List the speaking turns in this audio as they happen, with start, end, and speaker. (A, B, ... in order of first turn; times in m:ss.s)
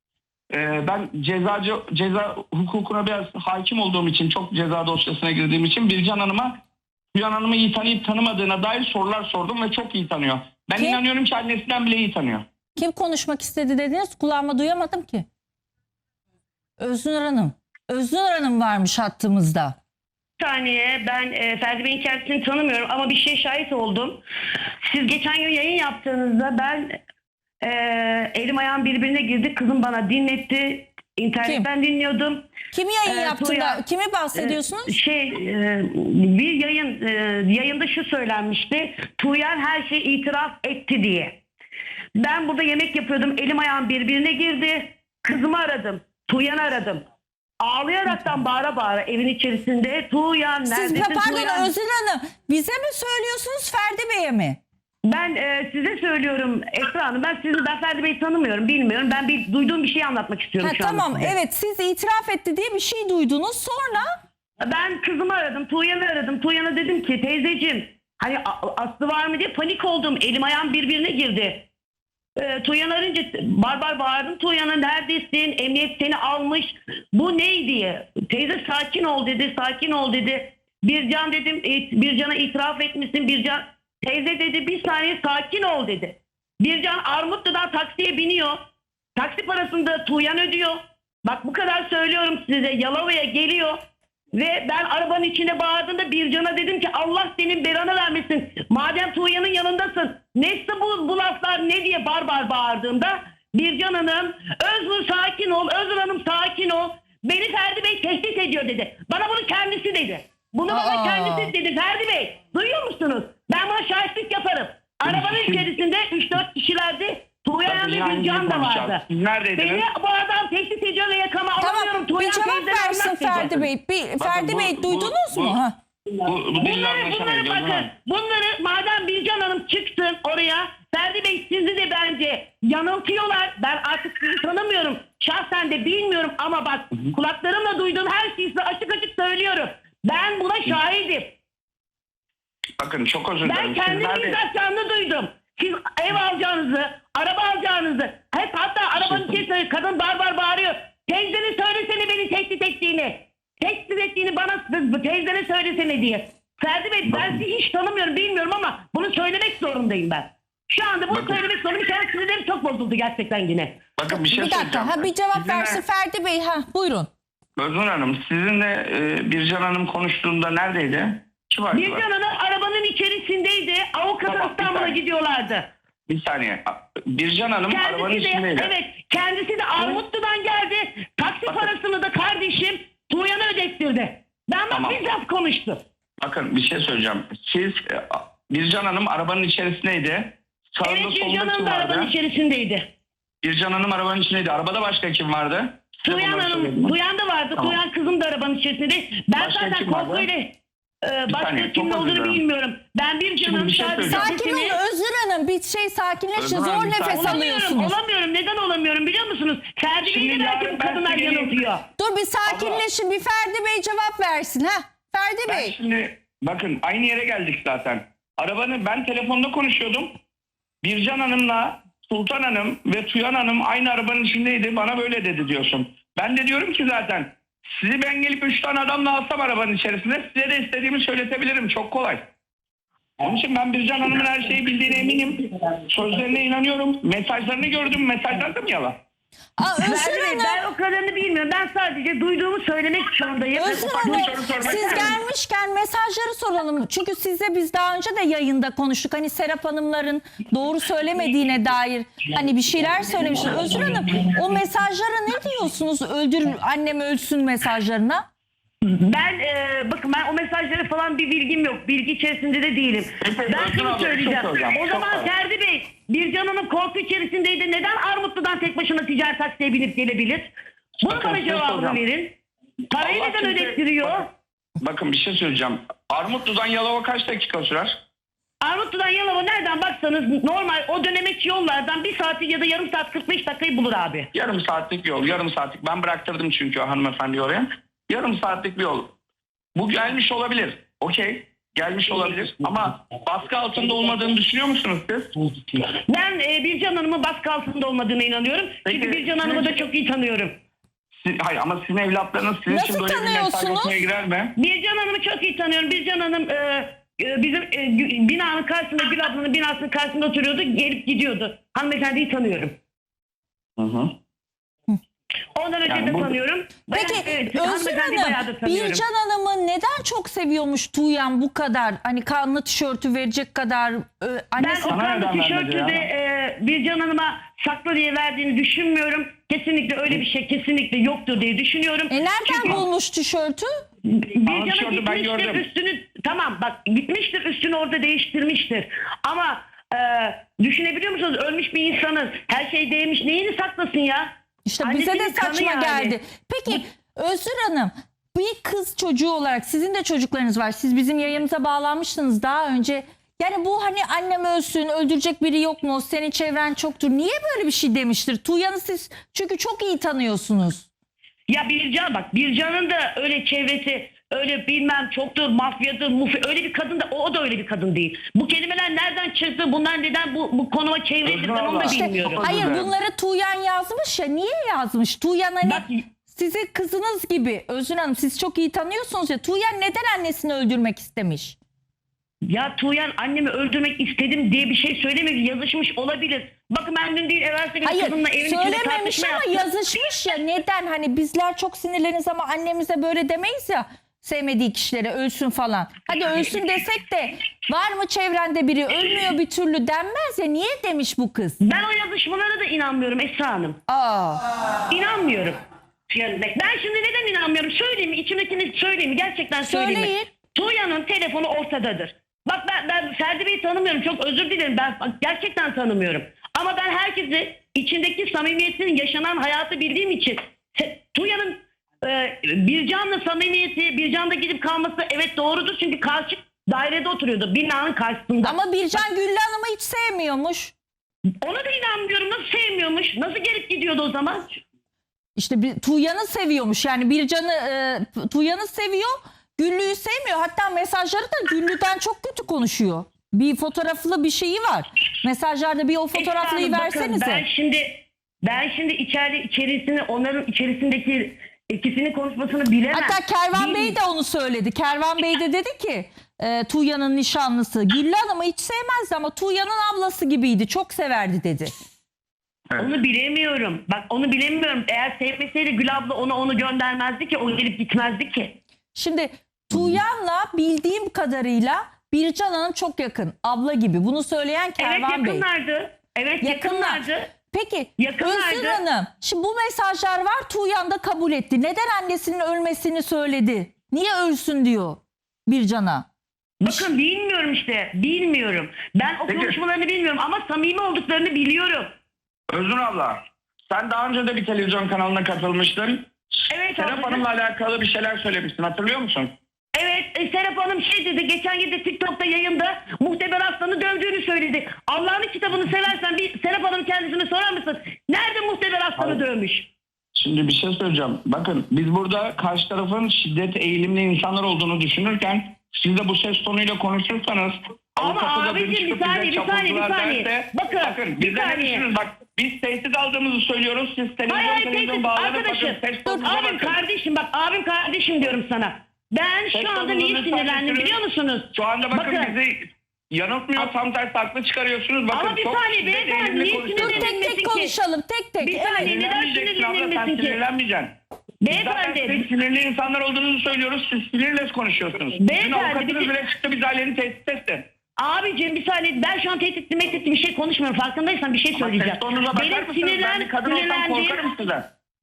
0:00.5-0:06.6 A
0:07.1-0:12.4 A
0:12.8-0:15.3 B
0:16.8-0:19.8 B
0:20.4-0:24.2 C
0:24.8-0:27.0 C
0:27.6-0:32.5 C
0:32.7-0:35.0 B
0:33.1-0:33.8 C
0:34.4-0:41.4 C
0:42.2-0:47.0 C
0:47.6-0:51.7 C
0:50.7-0:54.6 B
0:55.1-1:01.4 C
1:00.6-1:04.1 B
1:04.6-1:11.7 C
1:12.4-1:28.6 C
1:29.2-1:33.8 C
1:34.3-1:59.0 C
1:50.7-1:51.5 B
1:55.0-1:55.7 A
1:57.7-1:59.8 A
1:59.6-2:03.5 C
2:01.6-2:05.8 B
2:03.4-2:03.7 A
2:04.2-2:05.6 A
2:06.2-2:07.9 A
2:06.6-2:21.3 C
2:22.8-2:24.4 A
2:23.4-2:43.8 C
2:29.1-2:29.4 A
2:37.1-2:37.4 A
2:41.1-2:41.4 A
2:44.0-2:45.8 A
2:44.1-2:47.1 B
2:47.6-2:52.0 A
2:51.7-2:55.7 C
2:54.3-2:55.0 A
2:56.1-2:58.7 A
2:57.7-3:05.8 C
3:01.5-3:01.7 A
3:04.7-3:05.1 A
3:06.2-3:12.1 A
3:10.8-3:12.9 C
3:13.4-3:17.0 A
3:16.0-3:24.8 C
3:19.4-3:20.3 A
3:21.3-3:22.4 A
3:23.4-3:24.3 A
3:24.1-3:28.0 B
3:26.4-3:27.5 A
3:27.1-3:31.8 C
3:30.0-3:31.6 A
3:32.0-3:35.8 B
3:32.5-3:32.8 A
3:35.5-3:40.2 A
3:40.8-3:52.3 A
3:53.2-3:59.0 A
3:59.6-4:00.6 B
3:59.8-4:05.2 C
4:03.6-4:18.3 B
4:03.8-4:05.2 A
4:18.8-4:30.5 C
4:23.2-4:25.3 A
4:31.0-4:32.4 C
4:31.0-4:32.0 A
4:32.9-4:34.3 C
4:33.0-4:34.2 A
4:34.8-4:38.0 A
4:38.6-4:44.3 C
4:44.3-4:49.2 A
4:49.8-4:55.8 A
4:56.0-5:00.6 C
4:58.8-4:59.9 A
5:01.2-5:04.6 A
5:02.7-5:04.0 B
5:04.6-5:12.8 C
5:13.8-5:14.2 A
5:15.6-5:19.0 C
5:15.9-5:16.3 A
5:16.9-5:25.0 B
5:24.6-5:32.8 C
5:24.9-5:26.1 A
5:32.1-5:33.7 B
5:34.0-5:46.2 C
5:34.5-5:35.7 A
5:44.7-6:00.9 B
6:01.5-6:12.4 C
6:11.2-6:12.9 A
6:11.8-6:21.6 B
6:15.6-6:16.0 C
6:22.5-6:29.7 C
6:27.8-6:41.6 B
6:41.6-6:43.8 C
6:43.9-6:44.4 B
6:44.9-7:08.6 C
6:49.6-6:50.3 B
7:08.4-7:10.7 B
7:11.4-7:14.6 C
7:15.4-7:27.4 B
7:26.1-7:34.0 C
7:32.9-7:41.7 B
7:42.8-7:48.6 C
7:49.0-7:55.4 B
7:49.7-7:50.0 A
7:54.8-7:57.3 C
7:56.4-8:06.1 B
7:58.0-7:58.8 C
8:06.6-8:11.9 C
8:09.3-8:09.6 A
8:12.5-8:16.1 A
8:16.5-8:17.3 C
8:16.7-8:19.3 A
8:19.8-8:29.7 C
8:30.2-8:46.8 A
8:38.0-8:41.9 C
8:44.3-8:52.4 C
8:49.5-8:51.0 A
8:51.5-8:57.1 A
8:55.1-8:57.8 C
8:56.8-8:59.0 B
8:58.4-9:00.4 C
8:58.8-9:00.9 A
9:01.4-9:02.2 C
9:01.5-9:07.7 A
9:05.2-9:06.1 C
9:08.0-9:14.2 C
9:11.5-9:14.7 A